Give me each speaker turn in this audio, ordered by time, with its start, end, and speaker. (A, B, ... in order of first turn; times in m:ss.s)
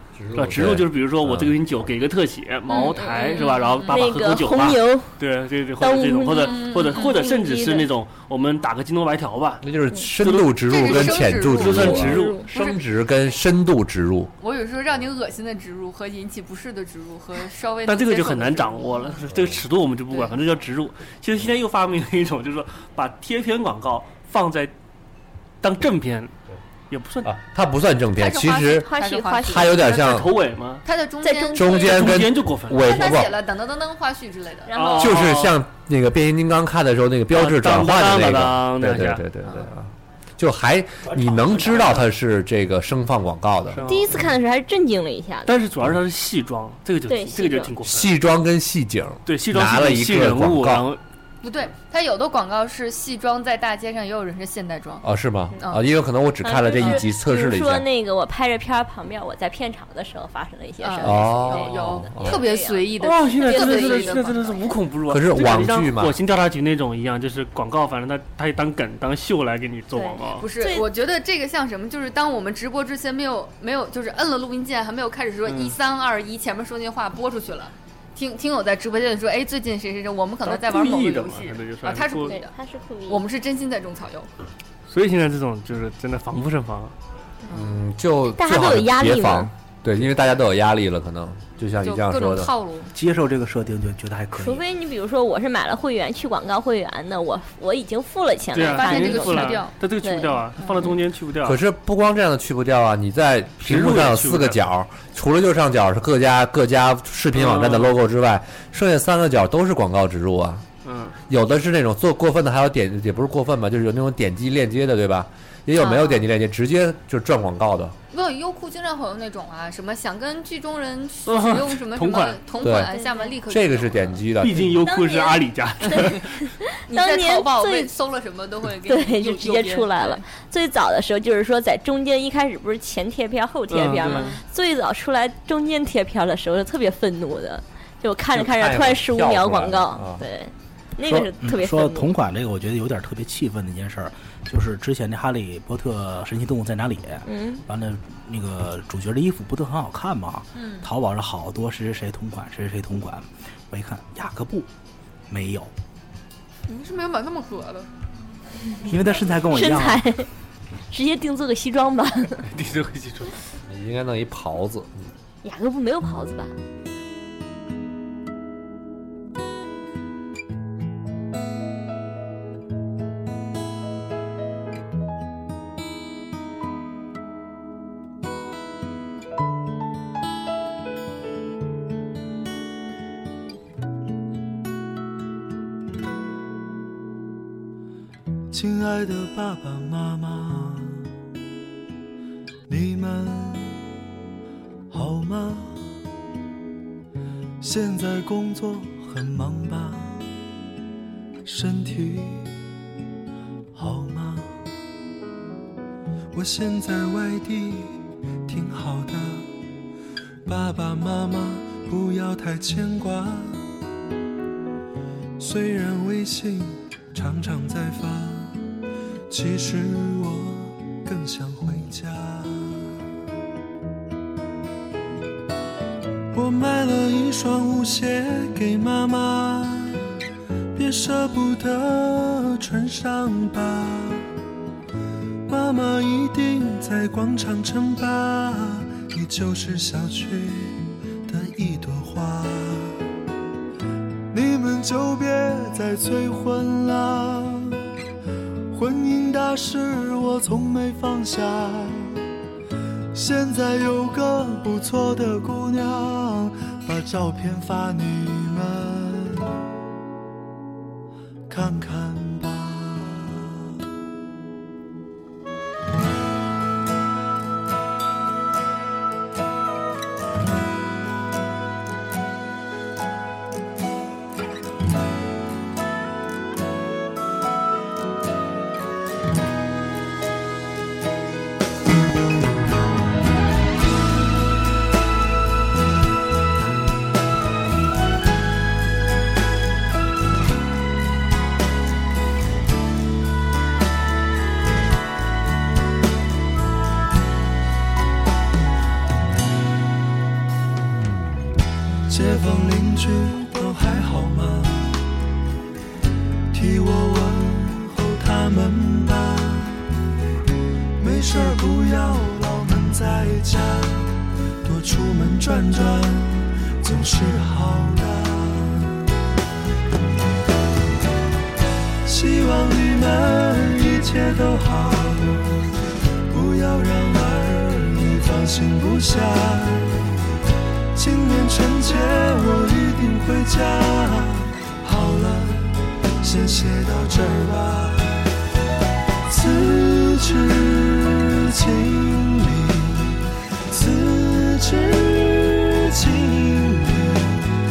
0:00.2-0:01.5 A
0:00.3-0:09.6 B
0:02.7-0:05.1 C
0:03.4-0:04.1 D
0:05.8-0:07.9 C
0:06.4-0:07.3 D
0:09.6-0:14.3 A
0:10.2-0:12.4 B
0:10.6-0:12.8 D
0:11.8-0:12.5 C
0:14.4-0:19.2 D
0:17.8-0:24.7 B
0:25.6-0:26.3 B
0:26.9-0:27.3 B
0:27.2-0:28.9 A
0:28.2-0:29.8 D
0:28.7-0:29.9 C
0:29.4-0:30.3 A
0:29.8-0:30.8 B
0:30.8-0:32.0 D
0:31.2-0:32.2 C
0:31.5-0:33.4 A
0:31.8-0:32.8 B
0:32.8-0:34.7 D
0:34.7-0:35.3 C
0:34.7-0:35.6 B
0:35.0-0:43.8 A
0:37.3-0:39.2 B
0:41.3-0:42.0 B
0:43.7-0:44.3 B
0:43.8-0:45.5 C
0:45.5-0:48.1 B
0:47.1-0:47.7 C
0:47.8-0:50.8 A
0:49.2-0:51.0 B
0:51.4-0:55.0 D
0:55.0-0:57.9 A
0:56.4-1:04.6 C
1:00.8-1:04.6 D
1:01.0-1:02.4 A
1:03.0-1:10.4 B
1:05.1-1:06.2 A
1:09.9-1:10.8 C
1:10.4-1:22.5 D
1:15.5-1:15.7 B
1:20.4-1:22.4 B
1:22.2-1:23.2 C
1:23.1-1:24.3 D
1:24.9-1:26.9 B
1:27.5-1:32.5 A
1:28.4-1:29.5 C
1:31.8-1:32.9 D
1:32.9-1:34.6 E
1:34.3-1:40.3 C
1:38.5-1:41.6 B
1:38.6-1:39.7 D
1:41.4-1:50.6 A
1:43.6-1:44.6 B
1:47.3-1:48.0 B
1:50.8-1:51.2 B
1:51.3-1:57.9 A
1:55.8-1:56.2 D
1:58.1-2:04.2 D
2:01.2-2:02.4 B
2:02.6-2:02.9 A
2:02.7-2:03.3 C
2:03.5-2:04.8 A
2:04.4-2:06.3 B
2:04.8-2:07.9 C
2:06.9-2:10.2 D
2:08.8-2:22.1 C
2:13.7-2:14.4 B
2:14.0-2:14.4 D
2:18.3-2:20.2 A
2:21.0-2:34.7 E
2:27.2-2:27.6 C
2:30.5-2:30.9 D
2:35.3-2:35.7 E
2:36.7-2:37.9 D
2:38.9-2:40.0 E
2:39.5-2:40.3 C
2:40.9-2:42.4 C
2:42.5-2:43.4 B
2:43.7-2:45.1 A
2:45.4-2:46.5 C
3:08.5-3:11.1 F
3:12.7-3:13.8 F
3:14.9-3:15.9 F
3:17.6-3:20.2 F
3:21.4-3:22.5 F
3:23.7-3:24.6 F
3:26.3-3:29.5 F
3:30.4-3:33.7 F
3:35.4-3:38.6 F
3:39.3-3:42.9 F
3:46.3-3:50.0 F
3:50.7-3:54.2 F
3:55.5-4:03.0 F
4:04.3-4:07.8 F
4:08.7-4:12.2 F
4:13.1-4:19.6 F
4:21.5-4:23.4 F
5:02.1-5:05.0 F
5:06.5-5:09.8 F
5:11.0-5:19.0 F
5:22.0-5:25.7 F
5:26.3-5:29.9 F
5:30.9-5:38.2 F
5:39.3-5:47.6 F